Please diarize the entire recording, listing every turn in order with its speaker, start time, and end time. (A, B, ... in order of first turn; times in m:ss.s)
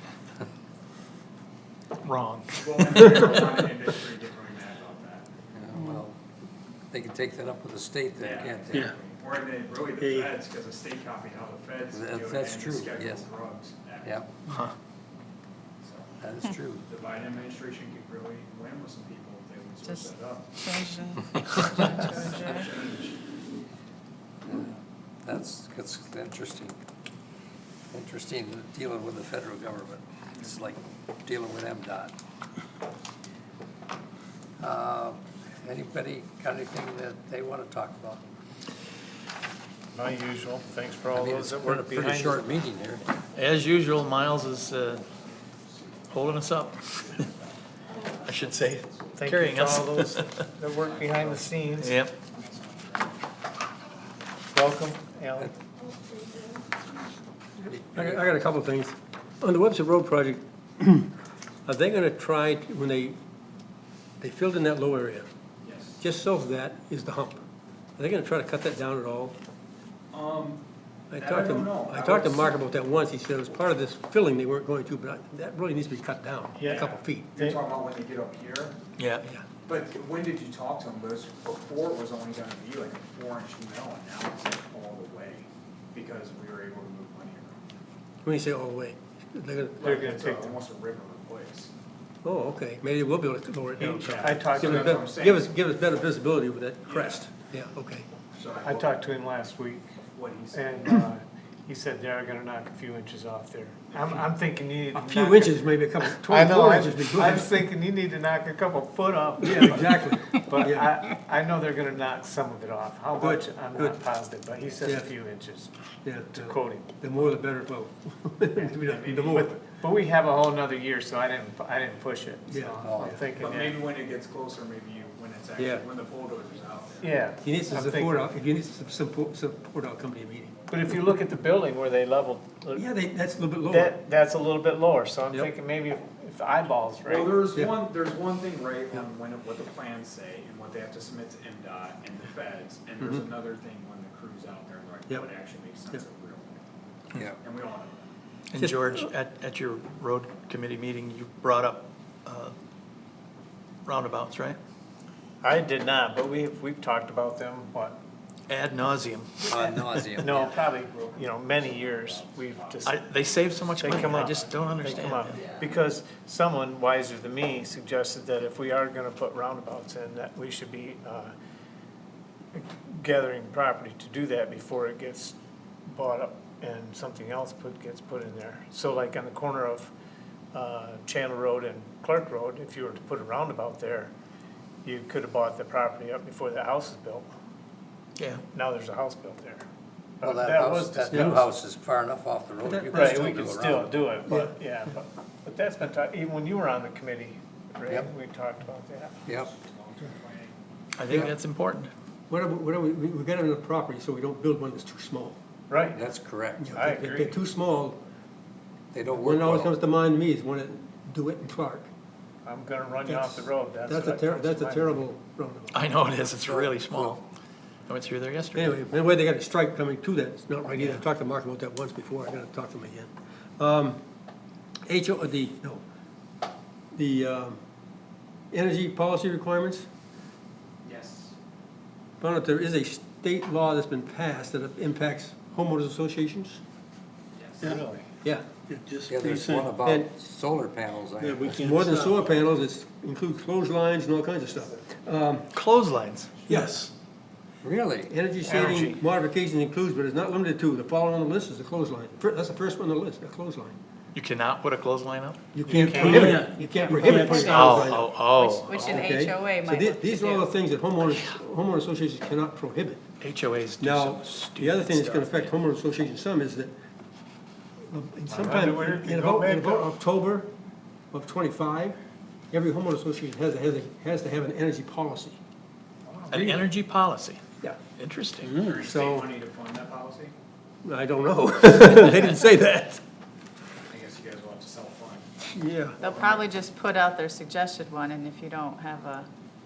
0:02.0-0:03.2 A
0:02.5-0:05.3 B
0:05.5-0:06.2 C
0:06.9-0:08.8 C
0:08.2-0:14.2 B
0:10.0-0:10.3 D
0:11.9-0:13.2 C
0:15.8-0:16.2 B
0:16.2-0:16.8 C
0:16.8-0:20.6 B
0:19.9-0:22.6 E
0:21.4-0:23.2 B
0:25.2-0:26.8 C
0:27.9-0:32.1 C
0:30.3-0:30.6 B
0:34.6-0:38.3 C
0:39.9-0:42.6 F
0:41.1-0:43.1 C
0:43.3-0:45.0 A
0:43.7-0:49.4 B
0:46.1-0:47.3 A
0:48.2-0:50.5 A
0:49.2-0:51.9 F
0:50.6-0:53.2 B
0:51.8-0:52.1 A
0:54.5-0:55.5 F
0:57.7-0:58.2 C
0:57.7-1:01.1 D
1:01.6-1:03.2 D
1:04.2-1:05.3 D
1:05.6-1:06.0 B
1:06.0-1:07.4 D
1:08.0-1:09.4 D
1:10.1-1:10.6 B
1:11.1-1:17.3 D
1:11.1-1:12.6 B
1:16.6-1:17.6 F
1:16.6-1:18.7 B
1:19.0-1:19.2 A
1:19.6-1:27.6 B
1:28.2-1:29.9 D
1:29.8-1:31.7 B
1:29.8-1:30.6 F
1:32.2-1:38.1 D
1:33.8-1:35.1 F
1:34.0-1:35.5 B
1:36.9-1:37.2 B
1:38.4-1:38.9 B
1:38.6-1:39.9 F
1:40.1-1:41.0 B
1:40.5-1:55.7 F
1:44.9-1:47.7 D
1:49.4-1:50.9 D
1:53.2-1:54.0 D
1:56.0-1:59.6 D
1:56.3-1:57.0 F
1:58.6-2:03.8 F
1:58.8-1:59.4 B
2:02.5-2:03.2 D
2:02.8-2:03.2 C
2:03.3-2:07.2 B
2:05.6-2:05.8 D
2:07.0-2:08.3 F
2:07.4-2:10.6 D
2:10.7-2:12.8 F
2:12.7-2:13.9 D
2:13.6-2:17.4 F
2:17.1-2:26.6 B
2:27.3-2:28.1 B
2:28.5-2:32.5 A
2:28.6-2:29.0 D
2:33.8-2:34.6 A
2:35.4-2:38.0 F
2:38.5-2:39.5 A
2:39.4-2:40.6 C
2:39.6-2:43.0 F
2:40.3-2:45.7 B
2:42.8-2:45.4 A
2:43.8-2:51.3 F
2:52.5-2:55.4 F
2:55.9-2:59.9 F
3:00.5-3:04.1 F
3:04.8-3:07.3 F
3:08.2-3:08.4 A
3:08.5-3:09.6 F
3:10.2-3:11.5 F
3:10.2-3:14.0 C
3:11.1-3:11.4 D
3:12.6-3:13.2 D
3:12.9-3:19.2 F
3:14.3-3:14.5 D
3:19.3-3:20.6 B
3:21.0-3:21.9 A
3:22.3-3:25.4 D
3:25.7-3:26.0 F
3:25.9-3:26.6 C
3:26.6-3:28.0 D
3:26.6-3:27.4 F
3:28.9-3:29.7 C
3:29.2-3:31.9 D
3:32.4-3:35.0 F
3:33.0-3:35.7 D
3:35.7-3:37.2 A
3:36.4-3:37.2 C
3:37.9-3:38.7 A
3:38.5-3:44.0 D
3:40.8-3:41.0 A
3:44.9-3:45.8 D
3:46.9-3:47.6 D
3:48.5-3:49.9 D
3:50.8-3:51.3 B
3:52.2-3:56.6 D
3:57.4-3:57.8 B
3:57.6-3:58.0 F
3:58.2-4:00.1 D
3:58.7-4:02.3 C
4:01.4-4:05.5 D
4:04.5-4:04.8 B
4:05.5-4:06.9 A
4:06.5-4:06.8 D
4:07.6-4:08.1 C
4:08.0-4:13.8 D
4:08.4-4:09.0 F
4:14.1-4:15.8 A
4:15.5-4:18.1 D
4:15.7-4:17.8 C
4:15.8-4:17.8 F
4:16.8-4:17.6 E
4:17.4-4:19.1 A
4:18.3-4:20.5 E
4:18.7-4:23.0 D
4:23.2-4:25.4 A
4:23.8-4:26.7 D
4:27.9-4:30.5 D
4:28.3-4:29.9 F
4:31.1-4:32.0 D
4:32.5-4:35.4 D
4:36.0-4:36.7 B
4:36.3-4:37.4 A
4:38.0-4:38.5 A
4:38.4-4:39.3 D
4:38.4-4:40.3 B
4:40.8-4:43.0 D
4:43.8-4:46.5 B
4:45.5-4:46.0 D
4:46.0-4:49.3 E